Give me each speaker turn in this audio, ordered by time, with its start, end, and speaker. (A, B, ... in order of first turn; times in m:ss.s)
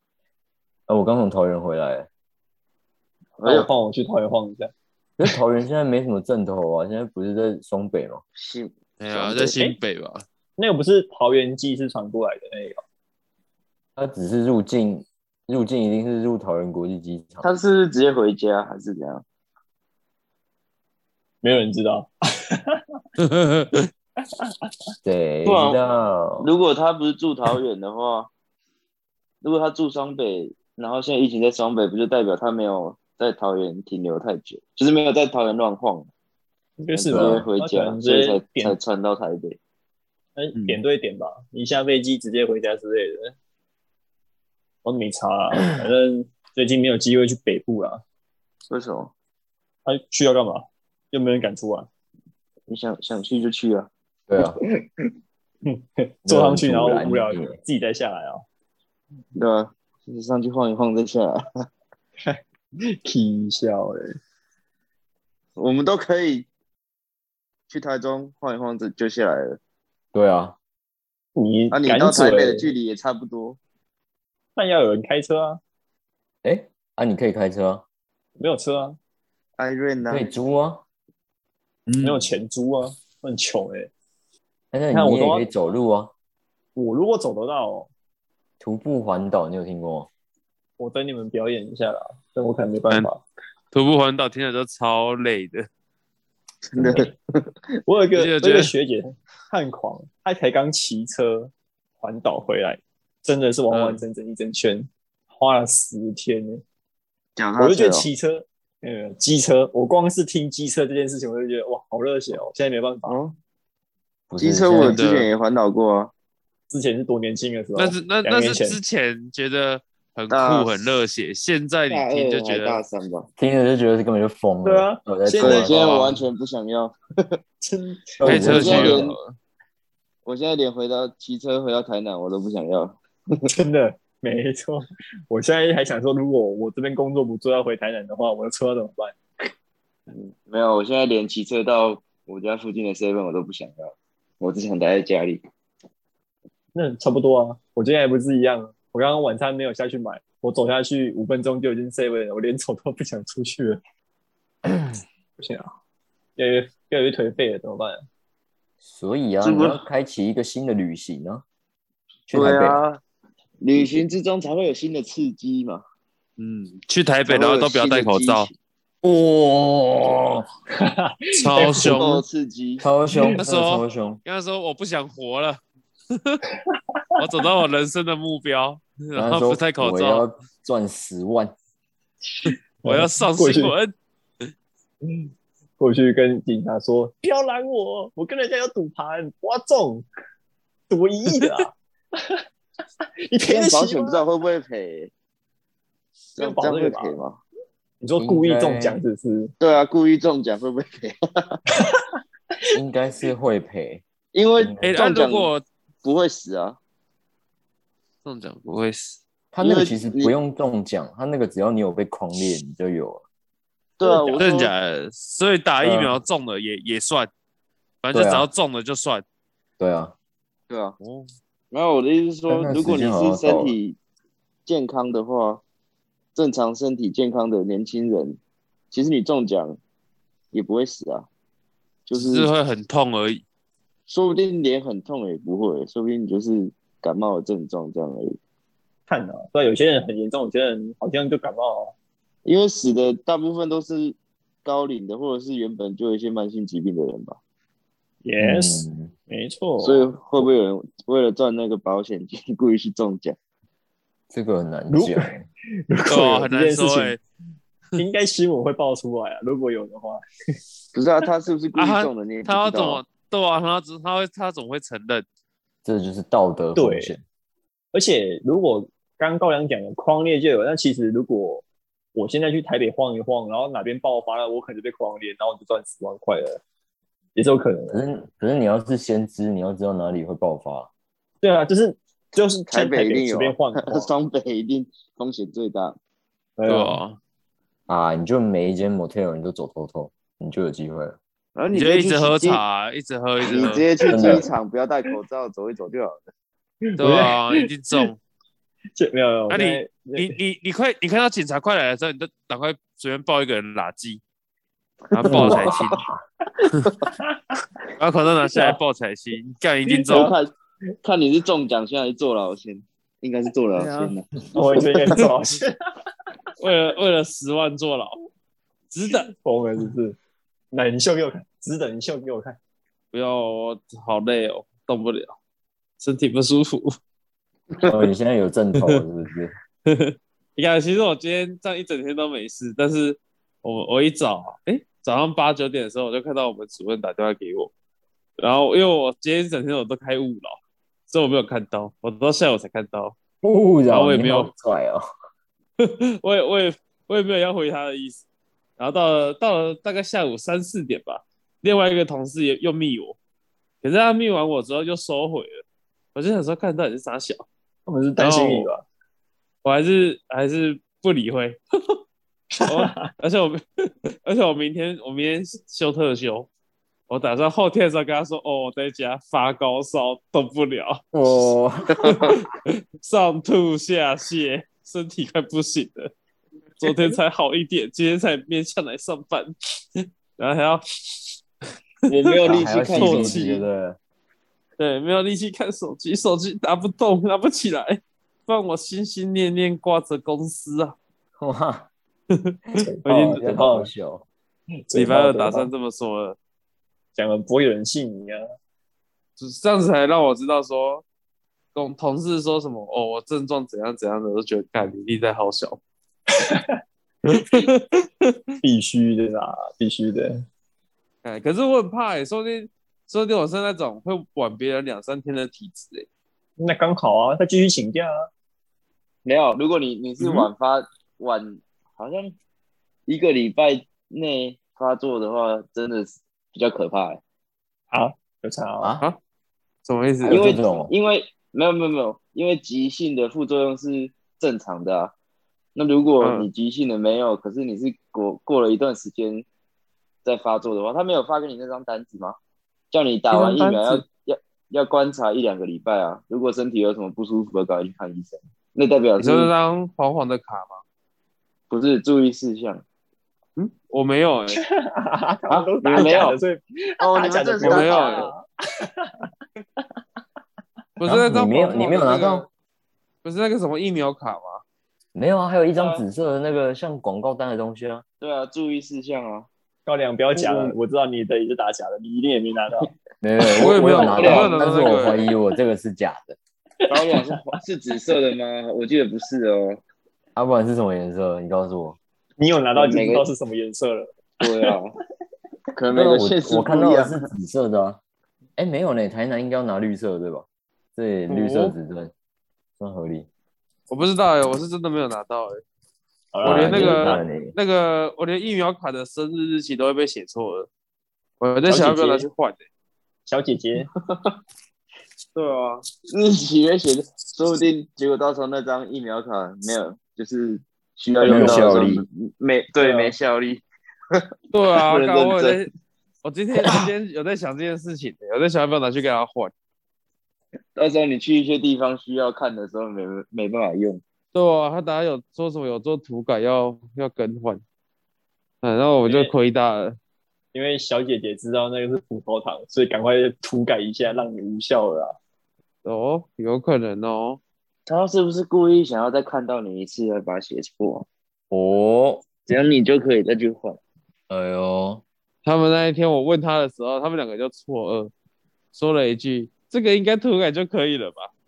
0:00.9-0:02.1 A
0:03.4-0:03.7 B
0:03.4-0:04.7 C
0:05.2-0:08.2 A
0:08.4-0:09.6 B
0:09.0-0:10.2 D
0:10.6-0:12.8 C
0:14.0-0:17.5 A
0:17.4-0:19.2 B
0:21.4-0:22.8 C
0:23.2-0:23.9 D
0:25.0-0:26.5 A
0:25.4-0:25.8 B
0:26.4-0:28.3 B
0:29.4-0:36.1 B
0:36.8-0:38.8 C
0:36.9-0:39.6 B
0:37.1-0:37.5 A
0:40.4-0:43.4 C
0:44.8-0:48.0 C
0:48.7-0:49.1 B
0:49.9-0:51.9 C
0:52.7-0:55.1 B
0:54.3-0:54.6 A
0:55.7-0:58.4 C
0:56.2-0:57.6 A
0:59.4-1:01.4 B
1:03.0-1:04.2 C
1:05.6-1:06.5 B
1:07.7-1:09.6 B
1:10.1-1:10.6 A
1:11.4-1:12.7 C
1:11.7-1:13.6 B
1:14.6-1:15.6 C
1:16.4-1:17.8 A
1:18.4-1:19.0 C
1:19.6-1:20.2 B
1:20.0-1:20.8 A
1:21.9-1:22.2 D
1:22.0-1:23.9 C
1:24.7-1:26.1 A
1:24.9-1:25.5 C
1:26.8-1:27.9 C
1:28.6-1:30.1 A
1:30.8-1:33.2 C
1:33.7-1:35.7 D
1:36.7-1:37.5 B
1:36.8-1:37.0 A
1:37.9-1:46.6 C
1:38.2-1:38.7 D
1:43.7-1:44.0 D
1:47.4-1:48.1 B
1:47.6-1:53.2 C
1:53.1-1:53.4 B
1:54.3-1:55.0 A
1:54.4-1:56.1 B
1:54.8-1:55.3 D
1:56.7-1:58.8 C
1:57.8-2:02.8 D
2:00.3-2:00.9 B
2:01.9-2:03.3 B
2:03.4-2:05.8 A
2:04.6-2:05.7 C
2:05.4-2:07.4 B
2:05.7-2:06.2 D
2:07.6-2:08.9 C
2:08.2-2:09.1 A
2:08.2-2:09.4 D
2:08.4-2:09.1 B
2:10.3-2:13.4 B
2:13.5-2:19.2 C
2:20.1-2:25.4 B
2:26.7-2:33.8 C
2:35.4-2:35.7 C
2:36.4-2:38.0 C
2:38.8-2:41.4 A
2:39.4-2:39.8 B
2:42.3-2:42.8 A
2:42.3-2:43.0 B
2:43.6-2:45.8 B
2:46.4-2:48.5 D
2:47.3-2:48.5 B
2:49.0-2:50.4 A
2:50.8-2:52.0 C
2:51.3-2:52.2 D
2:51.8-2:52.9 B
2:52.8-2:54.2 A
2:53.4-2:56.4 D
2:56.7-2:57.0 C
2:57.2-3:00.2 D
2:59.2-3:01.5 A
3:02.5-3:03.9 D
3:02.5-3:03.8 C
3:05.8-3:10.1 C
3:10.9-3:12.4 C
3:13.3-3:14.2 C
3:13.5-3:15.1 B
3:16.4-3:17.4 B
3:16.4-3:17.2 C
3:18.0-3:19.5 C
3:18.2-3:19.0 A
3:19.6-3:21.6 B
3:21.8-3:22.0 C
3:22.7-3:24.0 A
3:24.3-3:25.5 B
3:24.6-3:25.0 A
3:24.8-3:25.6 D
3:26.0-3:26.8 B
3:28.2-3:29.2 D
3:29.5-3:33.2 A
3:29.6-3:30.3 B
3:34.0-3:34.7 B
3:34.0-3:34.5 C
3:34.4-3:37.3 D
3:35.8-3:36.2 A
3:38.0-3:39.2 D
3:38.1-3:38.5 A
3:39.8-3:40.1 A
3:40.7-3:41.0 B
3:41.0-3:41.3 D
3:41.7-3:44.0 B
3:42.5-3:43.8 A
3:44.7-3:45.6 B
3:46.4-3:48.4 B
3:48.9-3:49.8 B
3:50.5-3:51.3 B
3:52.1-3:52.5 B
3:52.2-3:53.4 D
3:54.1-3:58.4 B
3:59.1-4:01.9 C
4:02.4-4:07.4 B
4:08.2-4:10.4 C
4:08.4-4:09.1 A
4:09.8-4:13.4 B
4:14.3-4:15.5 A
4:14.9-4:15.2 C
4:15.9-4:17.2 C
4:16.1-4:17.2 D
4:18.0-4:20.2 C
4:20.9-4:23.0 B
4:21.8-4:25.2 D
4:25.8-4:27.2 A
4:26.8-4:27.1 C
4:27.9-4:36.6 C
4:37.4-4:38.0 C
4:37.9-4:40.9 A
4:41.4-4:44.1 C
4:42.7-4:46.0 B
4:46.6-4:47.0 C
4:46.7-4:47.2 D
4:47.9-4:51.2 A
4:51.6-4:52.6 B
4:51.7-4:53.8 D
4:53.4-4:56.3 B
4:54.0-4:54.5 C
4:54.1-4:54.5 A
4:56.9-4:58.1 C
4:57.0-4:58.2 D
4:59.0-5:00.4 C
4:59.5-5:04.2 D
5:05.1-5:06.0 D
5:05.1-5:06.0 B
5:05.2-5:06.2 A
5:07.1-5:07.4 C
5:08.0-5:10.3 D
5:08.5-5:08.8 C
5:09.9-5:10.3 C
5:10.1-5:10.5 B
5:11.0-5:15.2 B
5:13.8-5:14.1 D
5:14.5-5:15.7 C
5:16.6-5:18.2 D
5:18.9-5:19.3 D
5:19.4-5:20.2 C
5:20.7-5:22.6 C
5:23.1-5:25.4 D
5:26.0-5:27.0 D
5:27.7-5:28.0 B
5:27.9-5:29.5 A
5:29.9-5:37.7 D
5:38.4-5:40.6 D
5:41.1-5:43.2 D
5:43.4-5:45.0 A
5:43.9-5:44.5 D
5:45.8-5:48.2 D
5:48.8-5:53.2 D
5:53.8-5:55.6 D
5:56.2-5:57.5 D
5:57.9-5:58.8 C
5:58.2-5:58.7 D
5:59.6-6:01.6 D
6:02.6-6:03.1 C
6:02.7-6:06.5 D
6:07.1-6:11.5 D
6:11.1-6:12.2 A
6:11.9-6:12.4 B
6:12.0-6:16.1 D
6:16.8-6:19.6 D
6:20.4-6:20.9 D
6:22.1-6:23.6 B
6:22.1-6:23.6 D
6:22.4-6:24.0 A
6:24.8-6:31.0 D
6:31.4-6:31.9 A
6:32.3-6:33.4 D
6:32.8-6:33.9 C
6:33.4-6:34.3 A
6:34.9-6:35.7 C
6:34.9-6:36.4 D
6:37.2-6:38.4 C
6:39.4-6:41.0 D
6:41.7-6:45.8 D
6:46.4-6:46.8 C
6:47.3-6:48.3 D
6:48.6-6:50.4 C
6:51.2-6:56.1 D
6:56.6-6:58.3 C
6:59.2-7:02.4 B
7:00.2-7:00.5 D
7:03.1-7:07.2 B
7:07.9-7:08.9 C
7:09.9-7:10.6 D
7:10.2-7:10.9 A
7:10.3-7:15.1 B
7:15.8-7:19.5 B
7:16.2-7:16.5 D
7:20.2-7:22.4 B
7:22.9-7:29.5 B
7:23.3-7:24.0 D
7:29.2-7:30.8 D
7:31.7-7:32.8 B
7:33.6-7:34.6 D
7:34.6-7:38.4 C
7:35.5-7:36.2 D
7:35.8-7:36.4 B
7:37.0-7:38.3 B
7:37.6-7:38.3 D
7:41.0-7:42.5 D
7:41.1-7:42.5 A
7:43.2-7:44.6 D
7:45.2-7:48.0 A
7:45.8-7:46.0 B
7:48.2-7:49.5 B
7:49.9-7:52.9 C
7:50.4-7:50.7 D
7:53.2-7:56.4 A
7:53.6-7:55.3 D
7:53.6-7:54.5 B
7:56.8-7:57.3 C
7:56.9-7:59.8 B
8:00.4-8:02.0 A
8:02.4-8:04.7 C
8:02.8-8:03.3 B
8:04.4-8:04.9 B
8:05.8-8:07.1 B
8:05.9-8:08.0 A
8:08.6-8:12.1 A
8:11.3-8:11.8 D
8:12.8-8:13.3 A
8:13.9-8:15.6 D
8:16.3-8:17.2 C
8:16.4-8:17.6 A
8:16.4-8:20.7 D
8:21.4-8:22.6 D
8:21.7-8:22.2 B
8:23.3-8:23.9 C
8:24.1-8:24.4 B
8:25.4-8:25.8 D
8:26.1-8:34.2 B
8:31.2-8:31.7 C
8:31.2-8:32.0 A
8:32.8-8:33.1 C
8:34.5-8:35.7 D
8:34.7-8:35.6 B
8:36.2-8:39.5 D
8:40.8-8:44.0 B
8:44.3-8:47.6 D
8:48.6-8:50.0 D
8:49.1-8:49.3 C
8:50.5-8:55.2 C
8:55.8-8:57.4 D
8:57.9-9:01.1 B
9:01.5-9:02.3 A
9:02.5-9:03.8 B
9:04.3-9:05.0 A
9:05.4-9:08.1 D
9:08.7-9:11.3 D